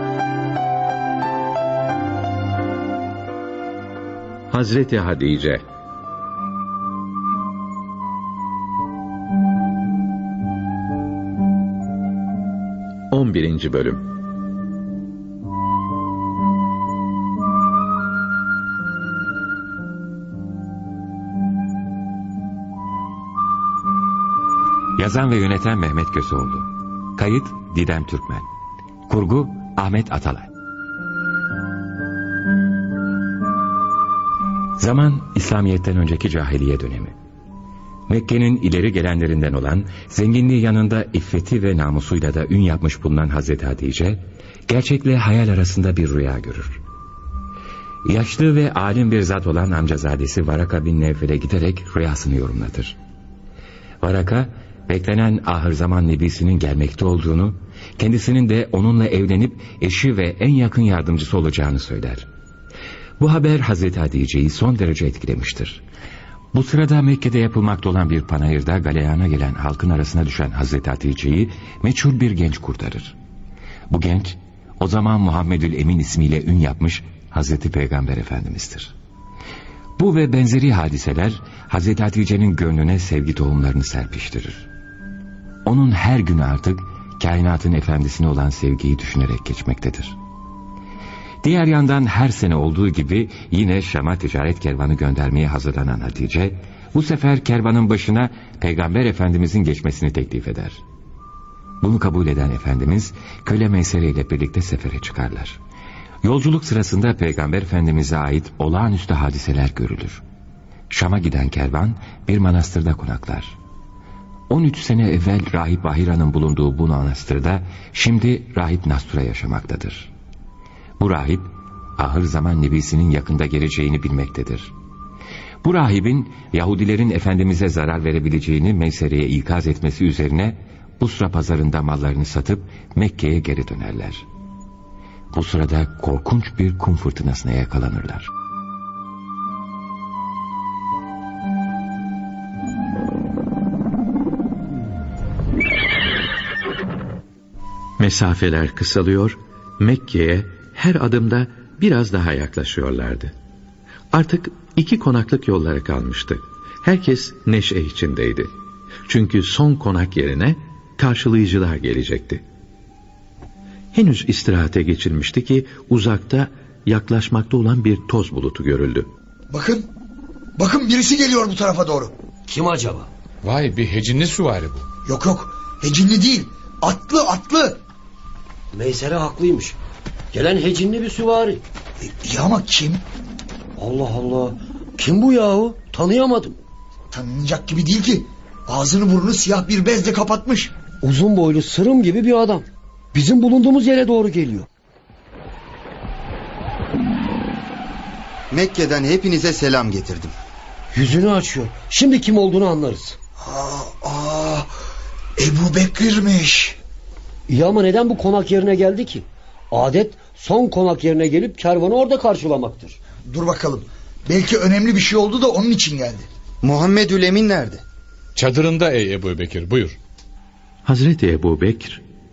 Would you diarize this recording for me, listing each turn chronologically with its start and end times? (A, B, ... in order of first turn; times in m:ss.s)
0:04.5-0:05.6 A
0:13.1-0:14.1 A
0:25.0-0:28.5 B
0:29.1-0:30.5 B
0:34.8-0:37.1 B
0:38.1-0:46.8 B
0:48.0-0:53.0 B
0:54.0-1:02.3 B
1:03.2-1:05.8 B
1:06.5-1:13.2 B
1:13.9-1:18.9 B
1:20.0-1:24.7 B
1:25.7-1:30.2 B
1:31.4-1:40.8 B
1:41.8-1:45.6 B
1:46.2-1:50.2 B
1:50.9-1:53.5 B
1:54.5-2:00.1 B
2:01.0-2:04.7 B
2:05.6-2:14.2 B
2:15.3-2:18.3 B
2:28.0-2:33.3 A
2:34.1-2:38.5 A
2:39.1-2:42.4 A
2:43.9-2:49.1 A
2:49.5-2:49.9 C
2:50.6-2:52.1 C
2:52.5-2:53.1 D
2:53.4-2:54.8 E
2:55.1-2:57.8 C
2:58.7-2:59.8 D
3:00.3-3:01.6 D
3:02.1-3:03.0 C
3:03.8-3:06.6 D
3:07.1-3:10.7 C
3:11.0-3:14.7 D
3:18.5-3:20.3 F
3:20.9-3:23.2 D
3:23.4-3:24.7 C
3:25.4-3:26.8 C
3:27.5-3:33.0 D
3:33.3-3:36.3 C
3:36.6-3:37.8 F
3:38.4-3:40.0 E
3:40.8-3:42.0 A